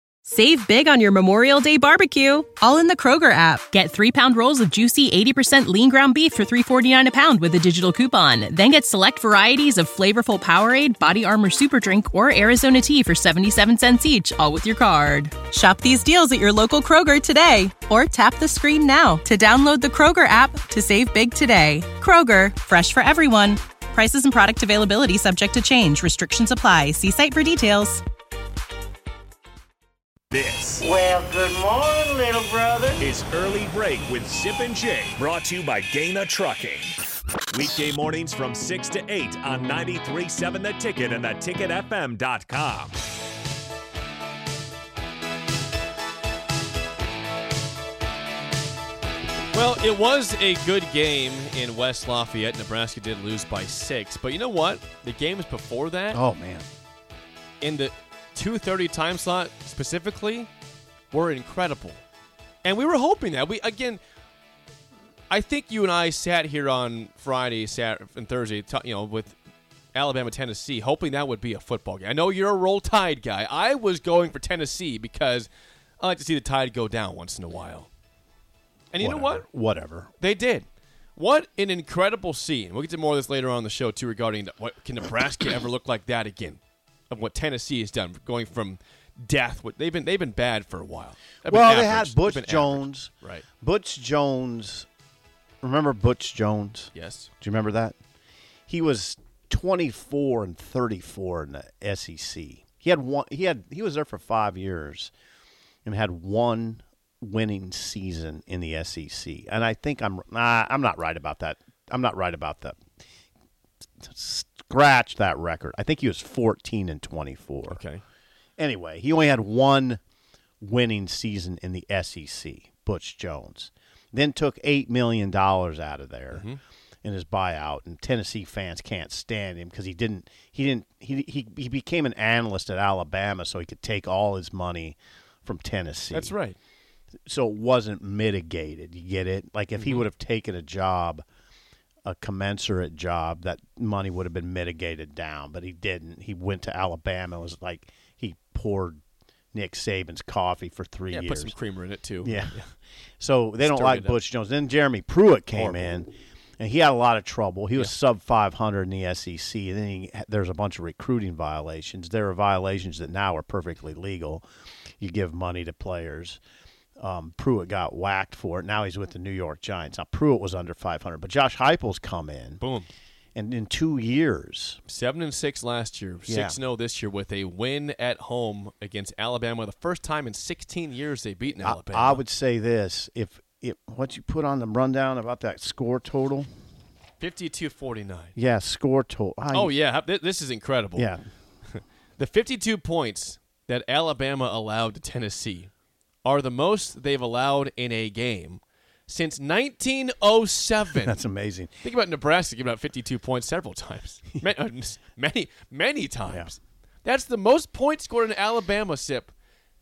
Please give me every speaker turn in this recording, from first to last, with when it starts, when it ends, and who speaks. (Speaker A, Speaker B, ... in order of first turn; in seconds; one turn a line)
Speaker A: 0.3-28.0
Speaker B: 30.3-30.8
Speaker C: 30.8-33.0
Speaker B: 33.0-36.9
Speaker B: 37.5-43.0
Speaker D: 49.5-56.2
Speaker E: 56.1-56.7
Speaker D: 57.6-60.5
Speaker D: 61.1-62.0
Speaker D: 62.6-64.0
Speaker D: 65.3-69.4
Speaker D: 70.0-75.5
Speaker D: 76.0-77.9
Speaker D: 78.9-79.5
Speaker E: 79.0-80.1
Speaker D: 80.2-80.7
Speaker D: 81.2-93.5
Speaker E: 91.5-94.9
Speaker E: 95.6-98.0
Speaker D: 97.0-97.3
Speaker E: 98.7-105.1
Speaker E: 105.9-112.8
Speaker E: 114.0-117.8
Speaker D: 117.7-118.0
Speaker E: 118.6-120.0
Speaker E: 120.6-126.5
Speaker D: 126.3-126.6
Speaker E: 127.0-136.3
Speaker D: 136.1-136.6
Speaker E: 137.3-141.2
Speaker D: 139.8-140.0
Speaker E: 142.1-149.0
Speaker E: 149.5-151.6
Speaker D: 151.1-152.7
Speaker E: 152.2-152.6
Speaker E: 153.2-164.4
Speaker D: 153.6-154.2
Speaker D: 155.5-155.9
Speaker E: 165.0-166.4
Speaker E: 167.0-172.6
Speaker D: 172.6-172.9
Speaker E: 173.3-174.8
Speaker D: 174.9-182.2
Speaker E: 176.3-176.6
Speaker E: 181.6-186.5
Speaker D: 187.2-188.3
Speaker E: 188.4-189.7
Speaker D: 189.5-191.1
Speaker E: 191.0-191.2
Speaker D: 191.7-195.7
Speaker D: 196.2-201.2
Speaker E: 200.9-201.7
Speaker D: 201.8-209.3
Speaker E: 206.3-206.5